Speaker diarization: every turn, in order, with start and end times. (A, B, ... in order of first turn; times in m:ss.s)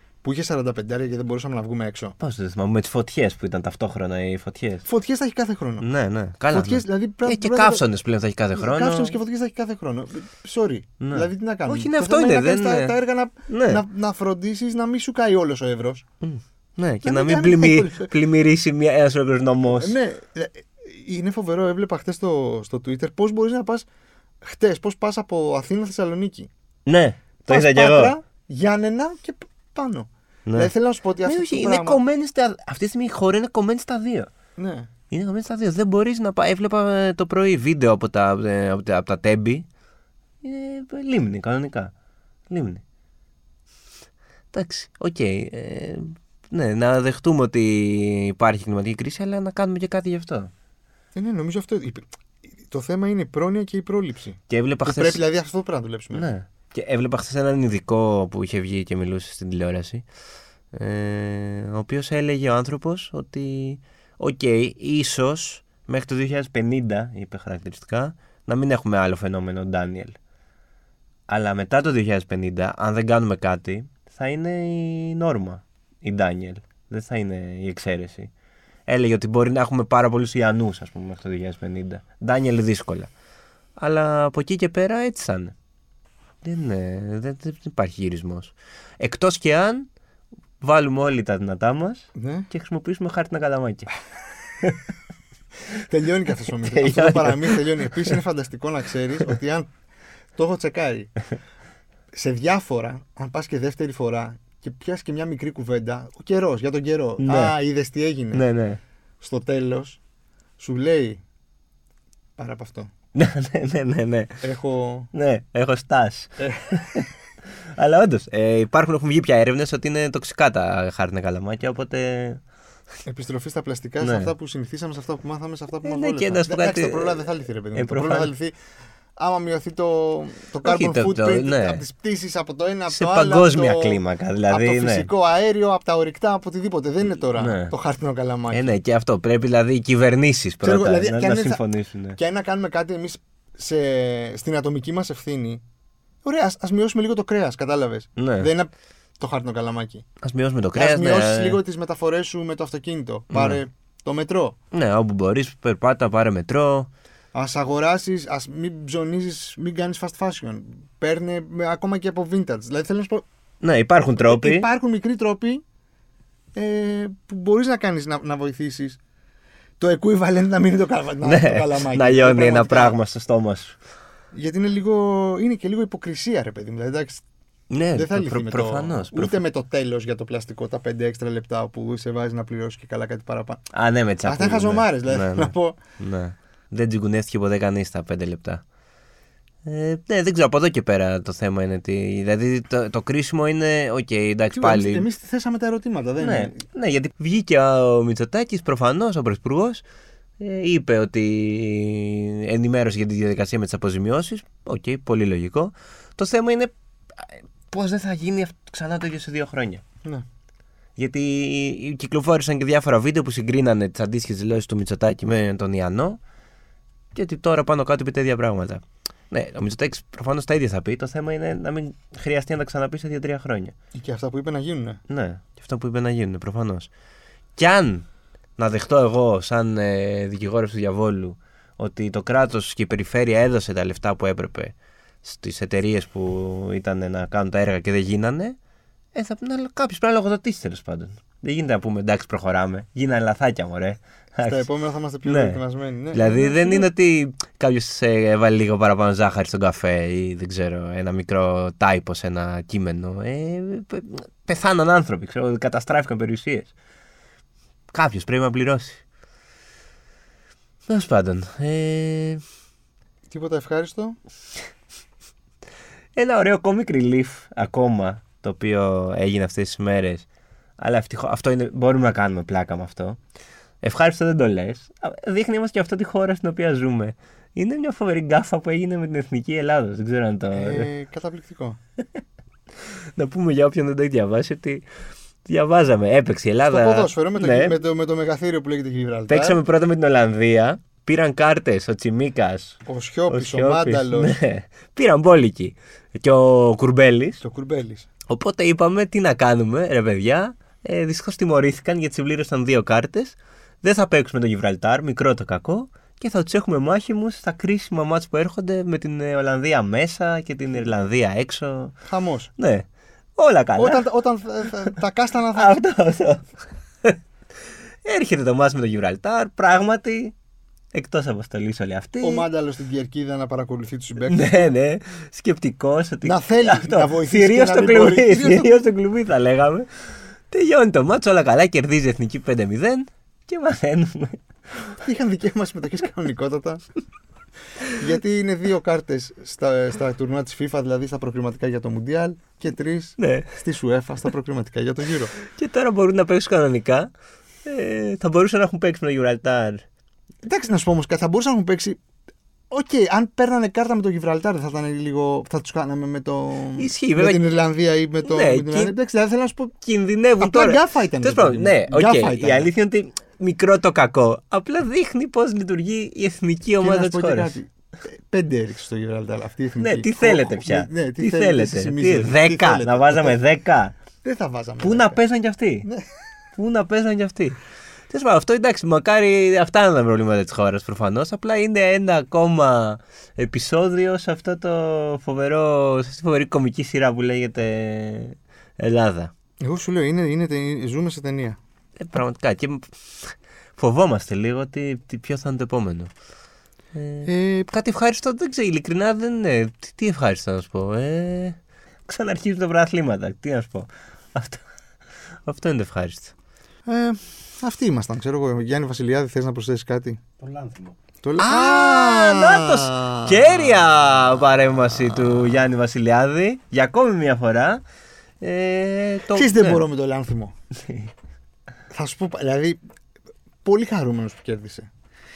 0:00.2-0:02.2 A
0:02.2-0:04.8 B
0:04.8-0:05.9 A
0:05.8-0:09.2 B
0:06.5-0:07.8 A
0:08.5-0:16.0 A
0:11.0-0:13.0 B
0:13.5-0:13.8 B
0:16.2-0:20.0 B
0:17.0-0:18.1 A
0:19.7-0:23.9 A
0:24.4-0:26.5 A
0:26.9-0:28.2 B
0:27.5-0:32.0 A
0:30.5-0:30.7 B
0:31.2-0:34.3 B
0:34.6-0:34.9 A
0:35.1-0:39.6 B
0:40.4-0:41.9 B
0:42.5-0:42.8 B
0:44.5-0:50.5 B
0:51.2-0:52.0 A
0:52.6-0:56.3 A
0:54.5-0:55.2 B
0:56.1-1:00.0 B
1:00.7-1:10.2 B
1:11.3-1:18.3 B
1:18.9-1:23.1 B
1:23.8-1:25.5 B
1:26.4-1:29.9 B
1:30.6-1:33.9 B
1:32.2-1:32.5 A
1:35.8-1:39.7 A
1:36.7-1:38.2 B
1:40.4-1:41.1 A
1:42.1-1:48.4 A
1:47.2-1:47.5 B
1:48.3-1:48.8 B
1:49.2-1:50.0 A
1:50.6-1:51.2 A
1:52.4-1:52.9 A
1:53.2-1:54.4 B
1:54.4-1:55.1 A
1:55.1-1:57.1 B
1:56.4-1:56.7 A
1:57.8-2:02.4 B
2:03.0-2:08.5 A
2:04.0-2:04.3 B
2:05.8-2:08.3 B
2:09.2-2:18.7 A
2:10.6-2:11.8 B
2:12.9-2:15.1 B
2:17.3-2:17.7 B
2:18.5-2:22.2 B
2:20.6-2:21.6 A
2:22.2-2:25.6 A
2:26.2-2:30.0 A
2:28.2-2:28.5 B
2:30.2-2:31.6 B
2:30.8-2:34.6 A
2:33.3-2:33.6 B
2:34.7-2:36.9 B
2:37.3-2:43.2 A
2:43.6-2:44.7 B
2:44.3-2:45.6 A
2:46.6-2:49.0 A
2:49.8-2:53.0 A
2:51.2-2:53.8 B
2:54.3-2:57.2 A
2:57.7-2:59.4 B
2:58.0-3:03.6 A
3:03.7-3:08.6 B
3:04.2-3:05.8 A
3:09.6-3:15.1 B
3:14.5-3:16.6 A
3:16.2-3:19.8 B
3:20.4-3:29.8 B
3:31.0-3:36.2 B
3:37.2-3:43.7 B
3:44.0-3:45.0 A
3:45.1-3:46.9 B
3:47.6-3:48.1 B
3:48.6-3:58.6 B
3:59.1-4:04.7 B
4:04.4-4:06.9 A
4:05.2-4:05.6 B
4:06.1-4:16.7 B
4:17.9-4:19.0 B
4:20.9-4:22.4 B
4:23.3-4:24.2 A
4:26.2-4:30.3 B
4:30.8-4:33.2 B
4:33.8-4:40.9 B
4:40.5-4:41.8 A
4:43.2-4:44.8 B
4:45.4-4:47.8 B
4:46.7-4:49.6 A
4:49.3-4:52.8 B
4:52.9-4:54.4 A
4:53.3-4:57.4 B
4:57.4-4:58.1 A
4:58.3-5:11.9 B
5:12.1-5:12.5 A
5:12.6-5:12.9 B
5:13.4-5:14.0 B
5:13.8-5:15.8 A
5:15.5-5:16.4 B
5:18.0-5:20.4 B
5:20.9-5:22.5 B
5:22.2-5:24.7 A
5:24.2-5:29.9 B
5:26.2-5:28.9 A
5:30.5-5:34.9 B
5:35.0-5:36.8 A
5:38.0-5:45.4 A
5:43.2-5:43.5 B
5:45.4-5:47.1 B
5:47.6-5:49.8 B
5:50.4-5:52.0 A
5:52.7-5:59.7 A
5:56.8-5:57.4 B
5:58.2-5:59.0 B
5:59.8-6:07.6 B
6:00.4-6:02.7 A
6:06.8-6:13.4 A
6:09.8-6:14.0 B
6:14.2-6:15.2 A
6:14.8-6:15.9 B
6:16.6-6:17.6 B
6:18.1-6:29.3 B
6:29.6-6:31.6 A
6:32.0-6:32.9 B
6:33.8-6:36.1 B
6:36.9-6:44.6 B
6:37.2-6:37.7 A
6:45.5-6:46.3 B
6:46.8-6:50.2 A
6:50.4-6:57.8 B
6:51.2-6:53.5 A
6:58.4-6:59.8 B
6:59.3-7:00.5 A
7:00.8-7:01.1 B
7:01.9-7:02.8 A
7:03.6-7:04.9 A